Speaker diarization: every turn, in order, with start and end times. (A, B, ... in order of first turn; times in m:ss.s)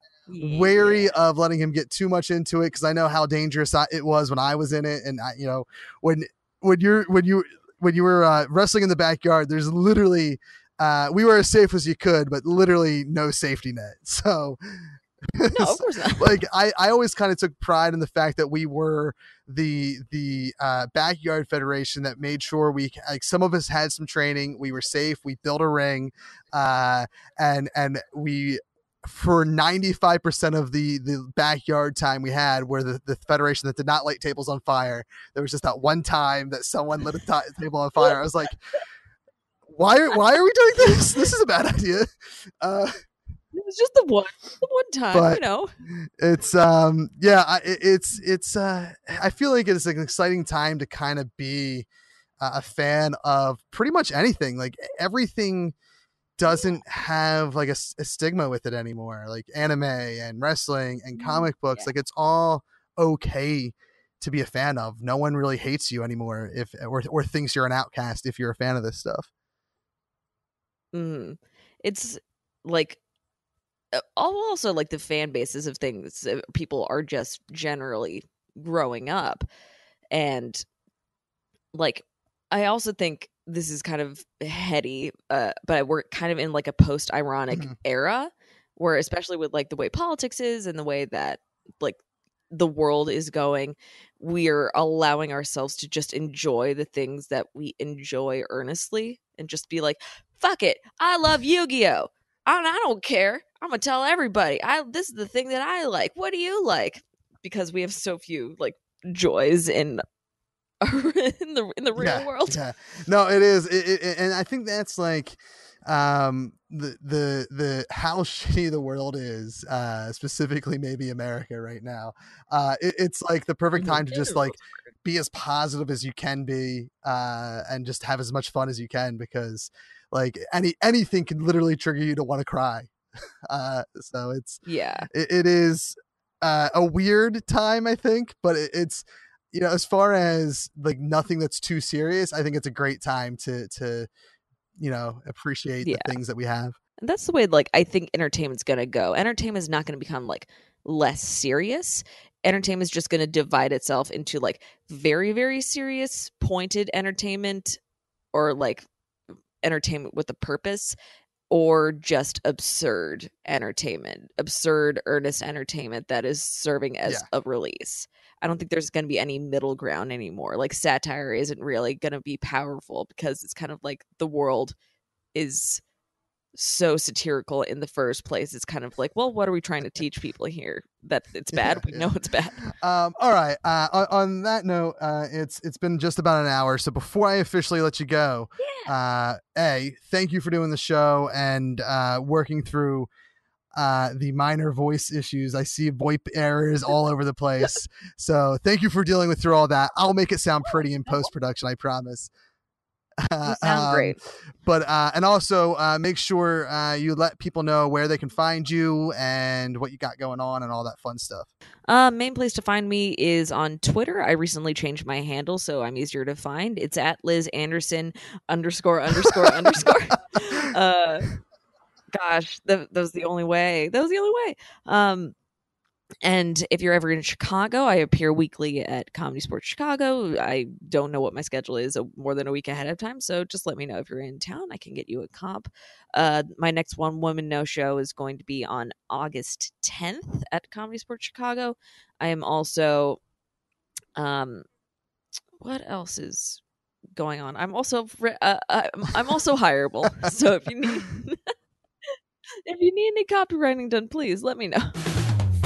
0:00.3-0:01.1 A
0:00.4-0:38.6 B
0:15.6-0:16.4 A
0:39.7-0:42.1 B
0:42.6-0:43.0 B
0:43.5-0:45.7 A
0:45.1-0:51.9 B
0:52.4-0:55.7 B
0:56.4-1:09.3 B
0:56.5-0:56.8 A
1:01.1-1:01.9 A
1:10.9-1:13.0 A
1:13.9-1:19.5 A
1:20.1-1:20.6 A
1:21.7-1:32.0 A
1:32.5-1:50.0 A
1:50.8-1:52.6 A
1:52.0-2:12.9 B
2:03.8-2:04.8 A
2:13.5-2:24.1 B
2:14.6-2:15.1 A
2:24.8-2:26.8 B
2:25.8-2:26.1 A
2:27.0-2:37.8 A
2:38.3-2:38.8 A
2:39.6-2:41.0 A
2:41.5-2:54.8 A
2:55.3-2:55.8 A
2:56.5-3:02.6 A
3:01.5-3:02.1 B
3:02.7-3:13.1 B
3:08.6-3:08.9 A
3:13.7-3:22.3 B
3:23.2-3:31.5 B
3:23.4-3:24.2 A
3:31.9-3:41.3 A
3:42.1-3:45.3 A
3:46.2-4:03.2 A
4:04.2-4:04.6 A
4:05.6-4:06.6 A
4:07.1-4:11.5 A
4:12.1-4:15.0 A